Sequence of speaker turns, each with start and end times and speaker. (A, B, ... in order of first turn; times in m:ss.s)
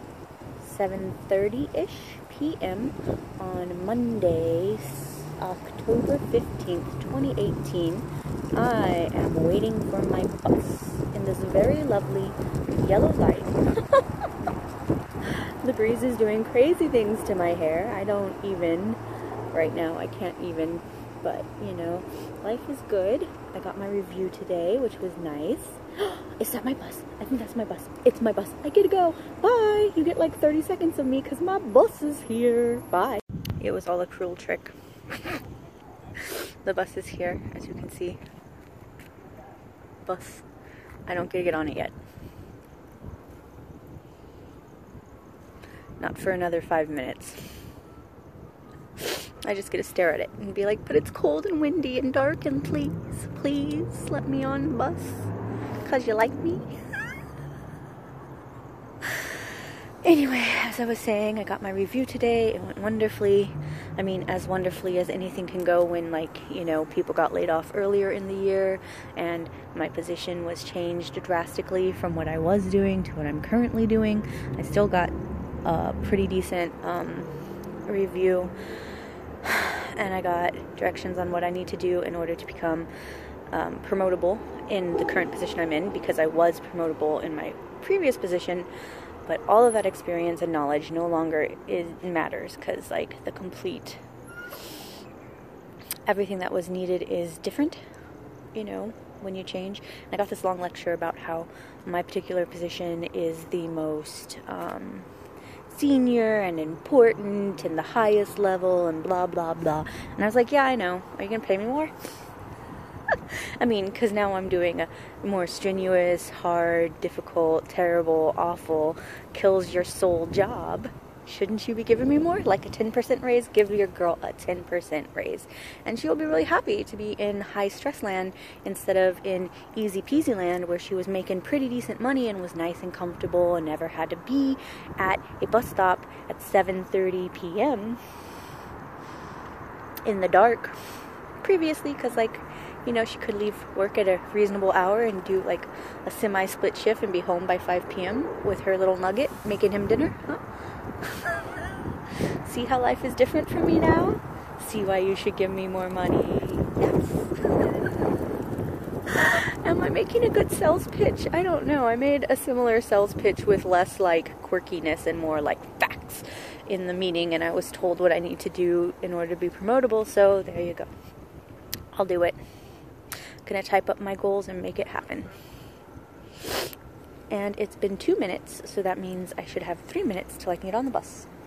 0:00.6-0:14.3 A
0:15.3-0:19.0 A
0:19.5-0:35.4 A
0:36.2-0:38.2 A
0:40.1-0:40.5 A
0:41.1-0:42.0 A
0:46.0-0:47.5 A
0:49.0-0:56.8 A
0:59.0-0:59.5 A
1:00.0-1:17.3 A
1:17.9-1:18.5 A
1:19.4-1:22.9 A
1:23.5-1:28.7 A
1:29.2-1:34.0 A
1:36.1-1:37.8 A
1:38.5-1:45.1 A
1:45.7-1:51.9 A
1:53.1-2:18.0 A
2:20.0-2:20.8 A
2:21.4-2:30.4 A
2:31.0-2:38.1 A
2:39.1-2:50.9 A
2:51.9-2:52.4 A
2:53.4-2:55.3 A
2:57.3-3:01.3 A